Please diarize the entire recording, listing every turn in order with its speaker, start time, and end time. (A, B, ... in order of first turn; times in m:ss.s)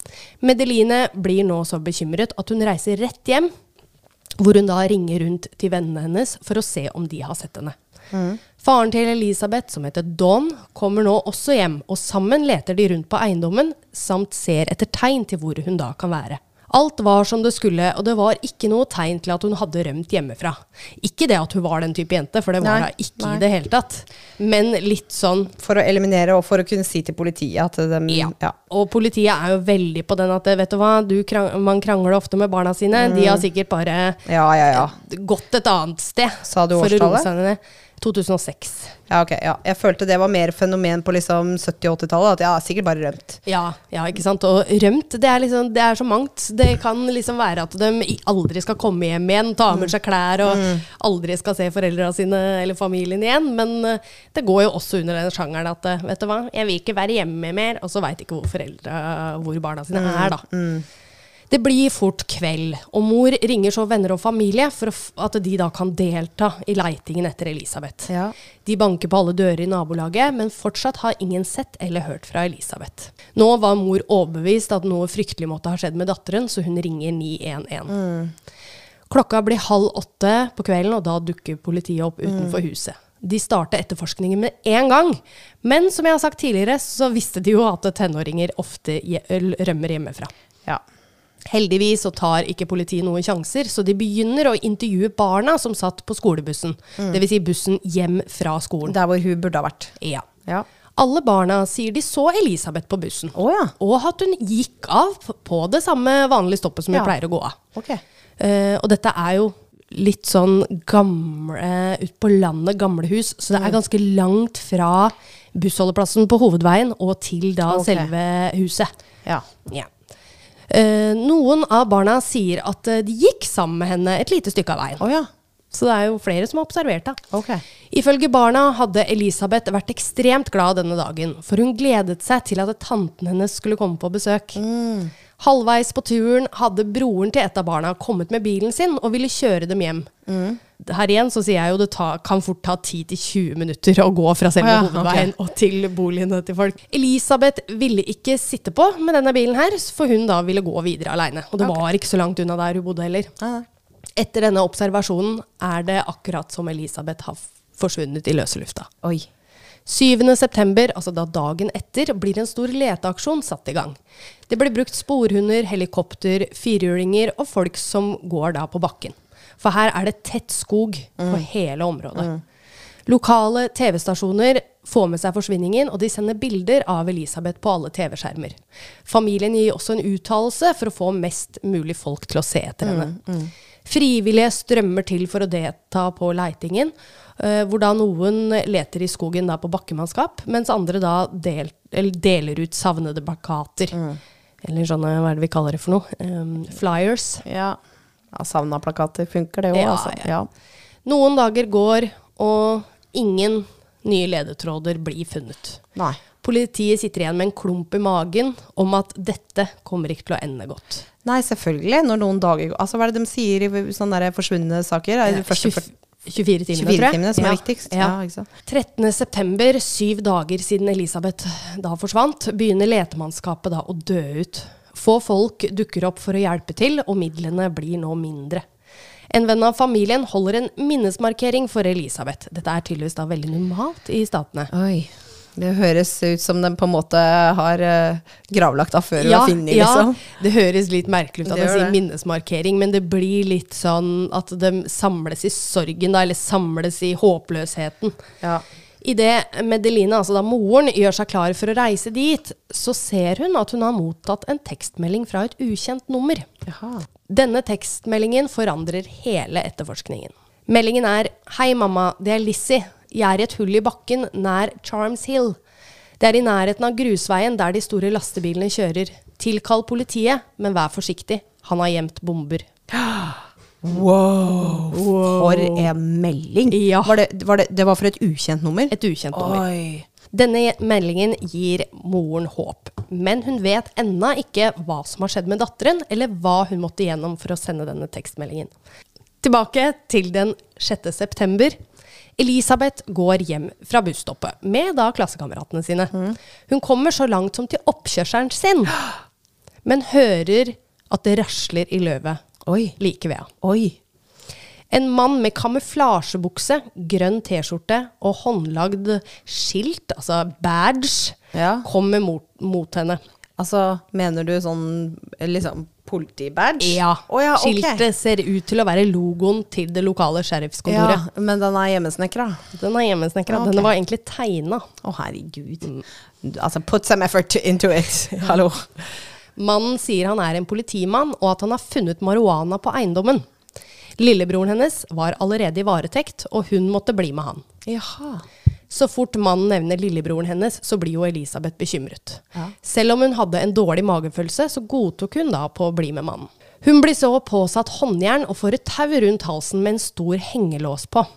0:00.4-0:03.5 A
0:04.4-0:07.8 A
0:08.1-0:08.4 B
0:08.6-0:25.5 A
0:22.6-0:23.4 B
0:25.6-0:28.5 B
0:28.1-0:38.9 A
0:33.0-0:33.4 B
0:34.2-0:34.9 B
0:36.4-0:37.3 B
0:39.1-0:43.4 B
0:43.4-1:00.4 A
0:50.4-0:50.8 B
0:59.9-1:00.8 B
1:01.5-1:08.1 A
1:08.1-1:08.3 B
1:08.6-1:18.0 A
1:17.9-1:18.3 B
1:19.1-1:30.3 A
1:22.2-1:22.6 B
1:31.5-1:39.0 A
1:38.8-1:39.9 B
1:40.0-1:40.2 A
1:41.0-1:47.6 A
1:43.3-1:43.7 B
1:47.7-1:48.0 B
1:48.4-1:58.9 A
1:57.7-1:58.1 B
2:00.7-2:05.0 A
2:05.0-2:05.3 B
2:05.7-2:07.2 A
2:07.3-2:07.6 B
2:07.9-2:14.6 A
2:14.6-2:15.1 B
2:15.4-2:20.1 A
2:20.3-2:20.6 B
2:20.8-2:33.3 A
2:24.6-2:25.3 B
2:33.4-2:33.6 B
2:34.2-2:38.9 A
2:39.8-2:44.0 A
2:44.5-2:52.3 A
2:51.2-2:51.4 B
2:53.1-3:03.1 A
3:02.8-3:03.5 B
3:03.8-3:14.0 A
3:13.9-3:14.2 B
3:14.6-3:17.4 A
3:17.4-3:17.8 B
3:18.3-3:20.5 B
3:19.7-3:20.3 A
3:21.0-3:25.8 A
3:26.4-3:31.0 A
3:31.2-3:35.9 B
3:35.3-3:48.6 A
3:36.7-3:38.5 B
3:49.3-3:54.7 A
3:54.7-4:00.2 B
3:59.2-4:08.2 A
4:01.4-4:02.0 B
4:09.0-4:16.5 A
4:16.6-4:17.0 B
4:17.3-4:25.6 A
4:26.2-4:32.7 A
4:32.9-4:40.1 B
4:34.9-4:35.9 A
4:36.7-4:37.2 A
4:38.9-4:39.6 A
4:40.3-4:48.7 A
4:49.4-4:51.8 A
4:52.4-4:56.2 A
4:56.7-4:59.0 A
4:59.8-5:02.4 A
5:02.6-5:03.0 B
5:03.0-5:03.5 A
5:03.6-5:04.0 B
5:04.9-5:13.2 A
5:11.5-5:11.8 B
5:13.6-5:18.0 B
5:16.8-5:21.2 A
5:20.9-5:22.6 B
5:22.8-5:24.9 A
5:23.5-5:23.9 B
5:25.0-5:25.9 B
5:26.4-5:29.1 B
5:29.6-5:33.4 A
5:34.2-5:37.6 A
5:37.8-5:38.4 B
5:38.9-5:51.3 A